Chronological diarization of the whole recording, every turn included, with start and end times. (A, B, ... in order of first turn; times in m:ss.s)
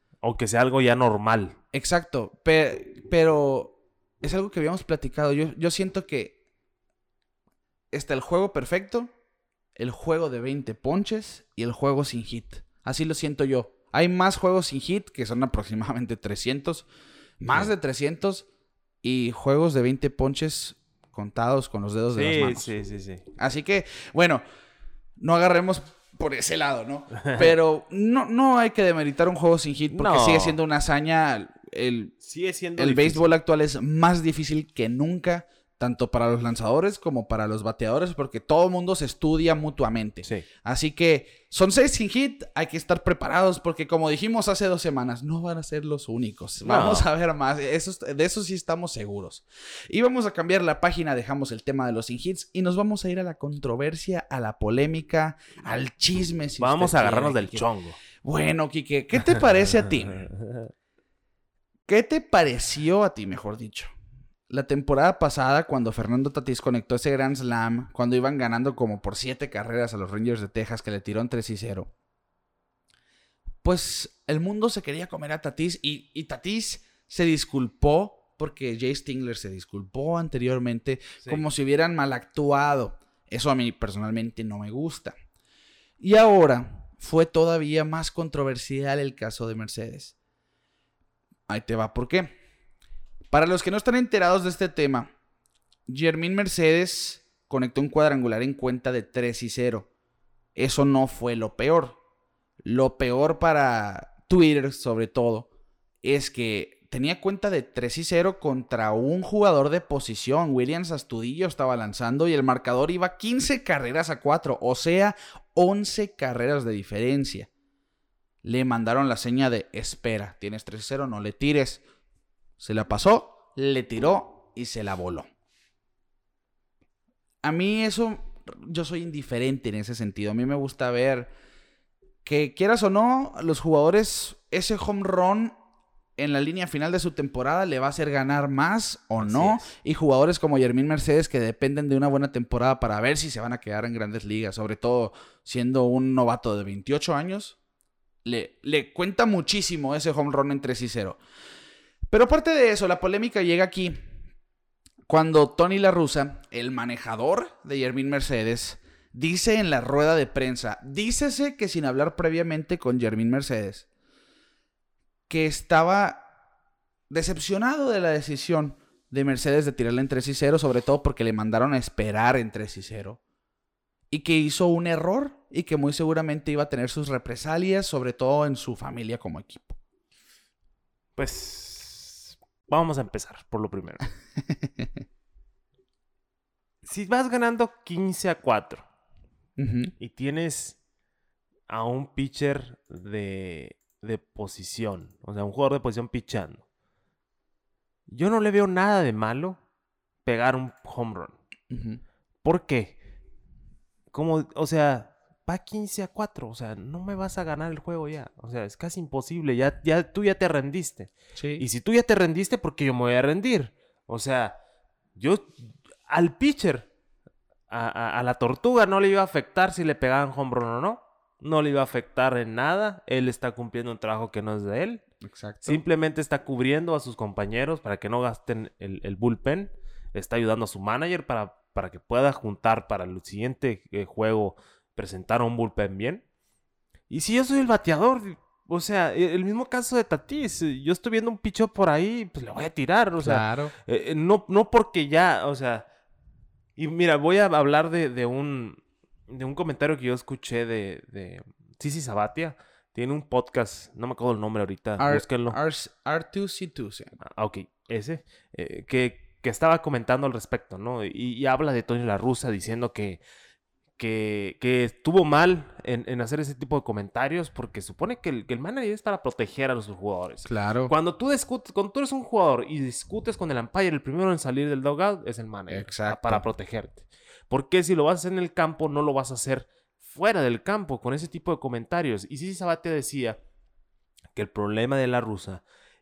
0:00.2-0:01.6 A
0:01.7-0:06.4 B
0:07.9-0:09.1 B
0:09.8-0:16.9 B
0:17.4-0:18.5 B
0:19.0-0:22.7 B
0:22.1-0:23.2 A
0:23.4-0:24.4 B
0:25.2-0:32.1 B
0:27.2-0:27.5 A
0:29.9-0:30.6 A
0:32.2-0:33.3 A
0:32.8-0:57.6 B
0:46.6-0:47.0 A
0:56.6-0:58.0 A
0:58.2-1:00.3 B
1:00.3-1:00.7 A
1:01.9-1:03.9 B
1:04.5-1:11.9 B
1:13.6-1:25.1 B
1:26.0-1:30.1 B
1:31.5-1:32.4 B
1:33.3-1:35.1 B
1:35.9-1:39.9 B
1:40.6-1:42.0 B
1:42.6-1:45.5 B
1:46.0-1:57.5 B
1:58.4-2:01.8 B
2:02.6-2:05.3 B
2:07.4-2:11.3 B
2:12.2-2:15.5 B
2:16.2-2:27.6 B
2:19.2-2:19.7 A
2:28.2-2:31.2 B
2:32.1-2:34.0 B
2:35.1-2:43.9 B
2:45.3-2:46.2 B
2:47.1-2:53.2 B
2:54.1-2:59.8 B
3:01.2-3:04.0 A
3:06.8-3:08.8 A
3:09.6-3:09.9 B
3:10.0-3:10.8 A
3:11.7-3:16.6 A
3:18.1-3:19.6 A
3:20.2-3:21.3 A
3:21.7-3:22.0 B
3:22.4-3:23.0 A
3:24.1-3:34.6 A
3:31.4-3:31.6 B
3:35.2-3:36.9 A
3:37.7-3:45.0 A
3:45.2-3:45.8 B
3:45.6-3:56.2 A
3:57.1-4:05.9 A
4:03.2-4:03.7 B
4:06.8-4:15.6 A
4:15.0-4:17.2 B
4:17.2-4:23.2 A
4:24.0-4:43.4 A
4:30.4-4:30.9 B
4:35.7-4:36.4 B
4:44.3-4:45.6 A